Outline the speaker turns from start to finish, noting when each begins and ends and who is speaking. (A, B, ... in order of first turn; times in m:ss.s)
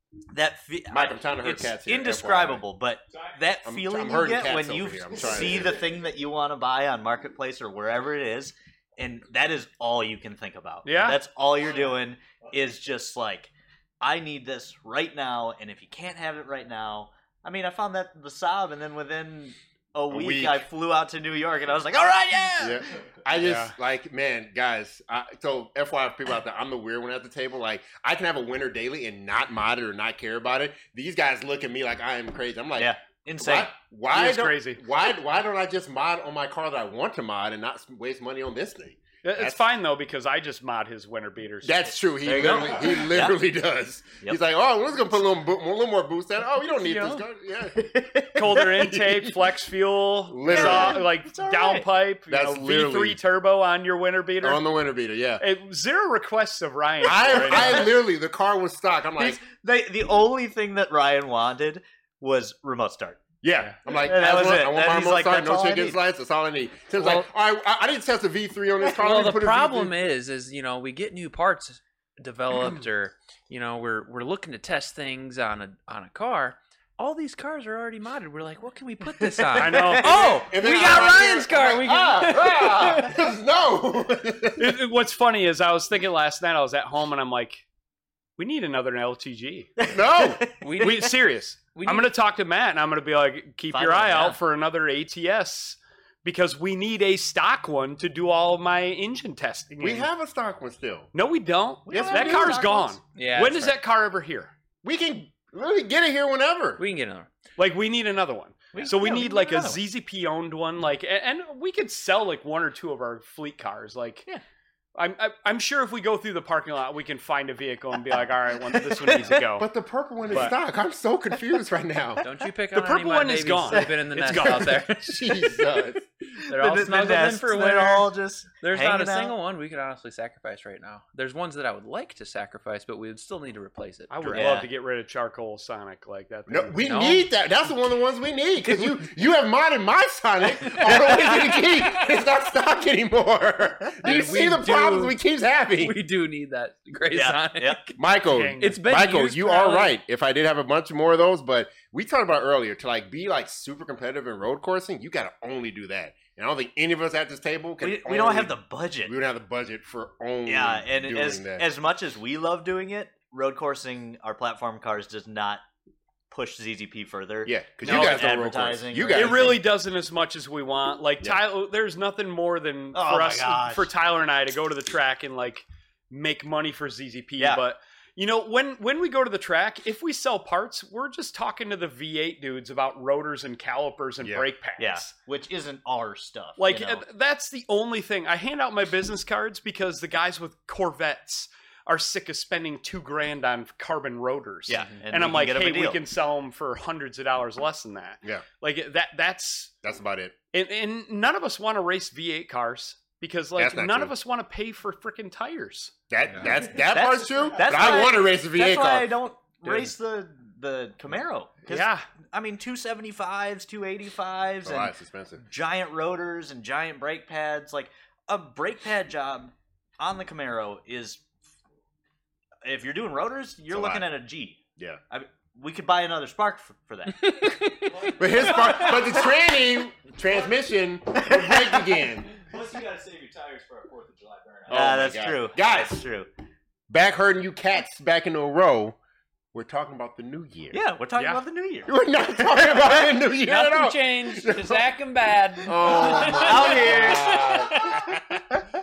0:00.3-0:22.8 A
0:00.9-0:02.6 B
0:03.6-0:05.8 B
0:05.1-0:06.0 C
0:10.8-0:11.2 D
0:20.1-0:20.6 B
0:22.6-0:39.6 B
0:23.4-0:23.7 D
0:32.8-0:33.7 A
0:34.1-0:34.8 D
0:39.2-0:41.8 D
0:41.6-0:49.4 B
0:42.2-0:43.4 A
0:46.8-0:47.2 D
0:47.7-0:48.8 A
0:48.3-0:54.6 D
0:50.3-0:51.0 B
0:50.4-0:51.9 A
0:52.3-0:53.2 B
0:54.4-0:55.4 B
0:55.4-0:57.9 D
0:57.0-0:59.4 B
0:59.2-1:03.2 A
1:03.4-1:10.0 B
1:03.9-1:06.0 A
1:08.9-1:23.2 E
1:19.4-1:20.2 A
1:19.6-1:20.4 D
1:20.0-1:24.8 B
1:24.6-1:27.6 D
1:28.4-1:29.7 D
1:29.8-1:30.6 A
1:29.9-1:30.5 B
1:30.6-1:31.2 E
1:30.8-1:40.1 D
1:31.7-1:32.1 E
1:33.7-1:34.4 A
1:39.8-1:41.1 B
1:41.1-1:44.5 D
1:41.8-1:43.0 A
1:41.9-1:42.7 B
1:43.1-1:43.8 E
1:44.8-1:46.8 B
1:46.8-1:47.3 E
1:47.6-1:54.2 D
1:48.7-1:49.8 A
1:54.9-1:59.6 D
1:58.7-1:59.3 A
1:59.6-2:02.2 B
2:00.3-2:00.5 D
2:02.2-2:05.6 E
2:02.7-2:04.8 D
2:04.3-2:06.1 B
2:06.4-2:08.1 E
2:06.4-2:09.3 A
2:08.6-2:14.6 E
2:14.1-2:16.8 D
2:14.3-2:14.7 A
2:16.5-2:26.0 B
2:16.8-2:17.3 E
2:18.6-2:19.0 E
2:20.6-2:22.2 E
2:24.0-2:25.2 E
2:24.0-2:24.6 D
2:25.8-2:28.0 E
2:27.1-2:27.8 A
2:28.0-2:41.6 B
2:28.3-2:28.8 D
2:28.6-2:30.0 E
2:37.8-2:39.1 A
2:40.4-2:45.6 A
2:46.3-2:49.6 A
2:47.4-2:49.6 B
2:47.8-2:48.3 D
2:49.1-3:05.1 D
2:52.9-2:53.9 A
2:57.4-2:57.6 A
3:04.2-3:04.5 B
3:04.8-3:07.0 A
3:06.6-3:19.7 D
3:14.7-3:16.0 A
3:19.8-3:20.3 B
3:20.5-3:25.9 D
3:23.6-3:24.1 B
3:26.1-3:29.2 B
3:26.7-3:41.2 A
3:29.6-3:29.9 D
3:31.7-3:32.0 D
3:34.6-3:35.4 B
3:42.6-3:44.6 A
3:43.7-3:44.1 B
3:45.1-3:47.3 A
3:47.2-3:49.2 E
3:47.8-3:48.9 C
3:48.1-3:52.3 B
3:52.3-3:54.9 C
3:54.7-3:56.0 B
3:54.7-3:56.3 A
3:56.9-3:59.0 B
3:59.5-4:00.8 B
4:00.7-4:01.9 A
4:01.2-4:01.4 D
4:01.8-4:04.8 B
4:03.4-4:08.1 E
4:05.6-4:08.4 B
4:05.8-4:08.0 A